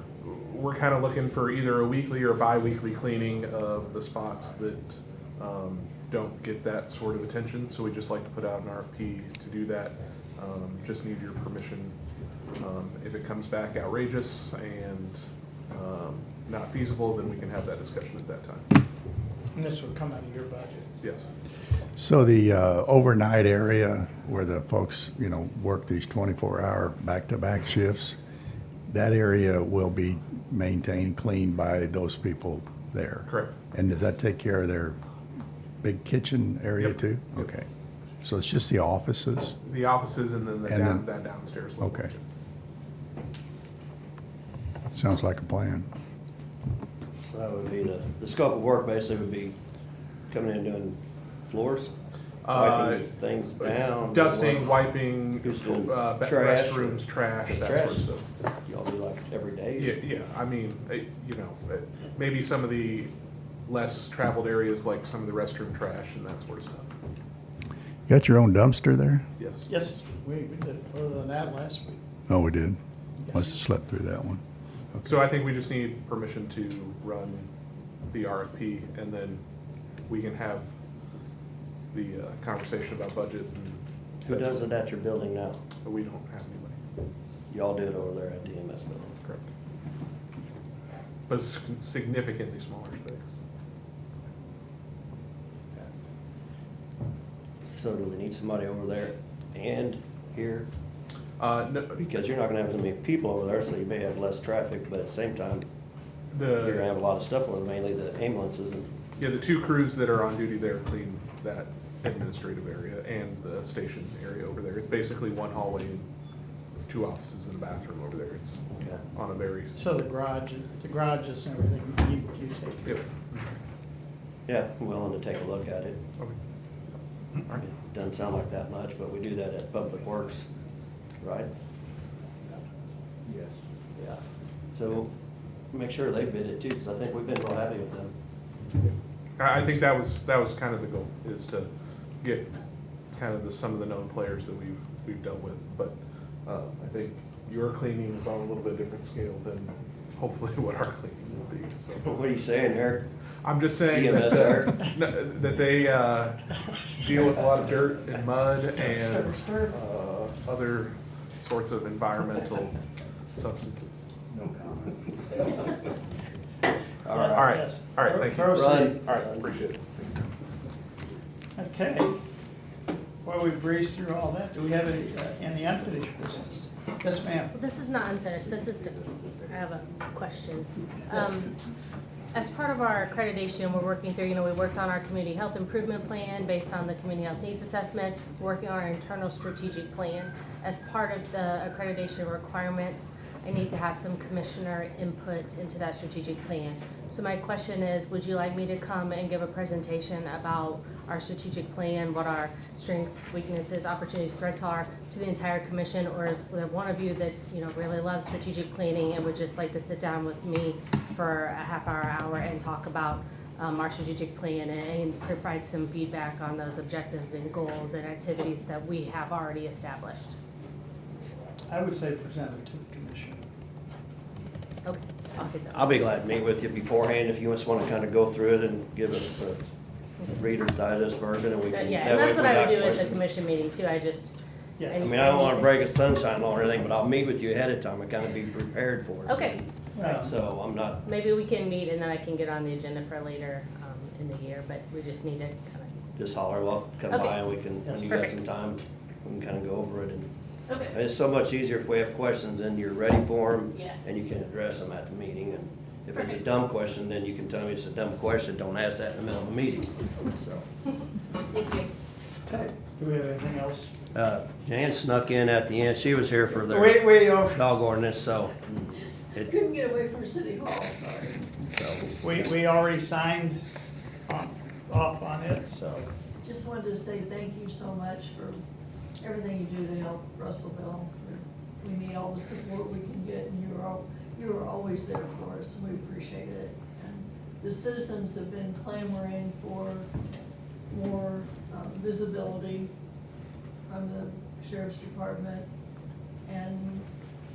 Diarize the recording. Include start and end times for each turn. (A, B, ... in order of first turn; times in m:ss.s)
0:00.2-0:12.0 A
0:12.6-0:18.7 A
0:19.5-0:20.9 B
0:22.0-0:28.2 C
0:28.9-0:35.0 C
0:33.3-0:33.6 A
0:35.8-0:37.7 C
0:36.8-0:37.5 A
0:38.2-0:39.6 C
0:39.6-0:42.2 A
0:40.7-0:41.0 C
0:41.8-0:42.1 C
0:44.9-0:45.9 C
0:47.2-0:49.6 D
0:50.3-0:51.9 D
0:52.4-0:53.1 A
0:52.5-0:58.1 D
0:53.6-0:58.3 A
0:58.7-1:00.0 D
0:59.8-1:03.1 A
1:03.7-1:06.9 A
1:08.1-1:09.2 C
1:09.4-1:09.7 A
1:09.7-1:12.0 B
1:12.3-1:12.8 C
1:13.2-1:13.6 B
1:13.3-1:14.4 C
1:15.0-1:17.5 A
1:18.1-1:19.4 A
1:20.1-1:20.7 A
1:21.9-1:24.7 A
1:24.2-1:25.6 D
1:25.8-1:26.8 A
1:27.5-1:29.2 D
1:29.2-1:29.5 A
1:31.3-1:33.4 A
1:37.6-1:40.7 D
1:41.4-1:42.0 A
1:42.0-1:45.6 D
1:46.3-1:47.0 A
1:46.6-1:48.9 D
1:49.2-1:56.1 A
1:56.9-1:59.8 A
1:59.8-2:03.1 B
2:02.9-2:03.6 A
2:04.5-2:06.0 D
2:07.6-2:10.5 D
2:11.2-2:11.5 D
2:14.0-2:14.2 D
2:14.7-2:15.1 D
2:15.7-2:18.1 D
2:19.4-2:21.7 A
2:22.2-2:22.5 A
2:23.1-2:32.2 A
2:32.0-2:33.1 D
2:33.4-2:42.8 A
2:33.9-2:34.8 D
2:38.8-2:39.8 B
2:43.4-2:44.1 A
2:47.0-2:49.5 D
2:47.1-2:47.8 B
2:47.3-2:50.2 A
2:51.6-2:52.2 B
2:53.2-2:57.5 B
2:57.6-3:01.5 E
3:02.3-3:40.4 E
3:41.7-3:43.4 B
3:44.8-3:45.9 E
3:45.7-3:49.6 D
3:50.4-3:53.2 D
3:51.7-3:54.4 E
3:54.8-3:55.2 B
3:54.9-3:55.8 E
3:55.0-4:01.0 D
3:59.3-3:59.6 E
4:00.0-4:00.4 B
4:01.0-4:06.0 E
4:06.2-4:10.3 D
4:07.1-4:07.5 E
4:07.8-4:08.2 B
4:08.1-4:08.4 E
4:10.7-4:11.0 E
4:10.9-4:20.6 D
4:13.7-4:14.1 E
4:21.5-4:21.9 E
4:22.5-4:23.9 B
4:24.1-4:29.5 D
4:26.5-4:27.7 B
4:29.4-4:31.4 F
4:31.7-4:32.5 D
4:32.2-4:33.6 B
4:34.3-4:36.1 B
4:36.4-4:38.6 F
4:39.2-4:50.1 F
4:50.9-4:52.9 F
4:53.9-4:55.7 F
4:56.4-4:57.1 F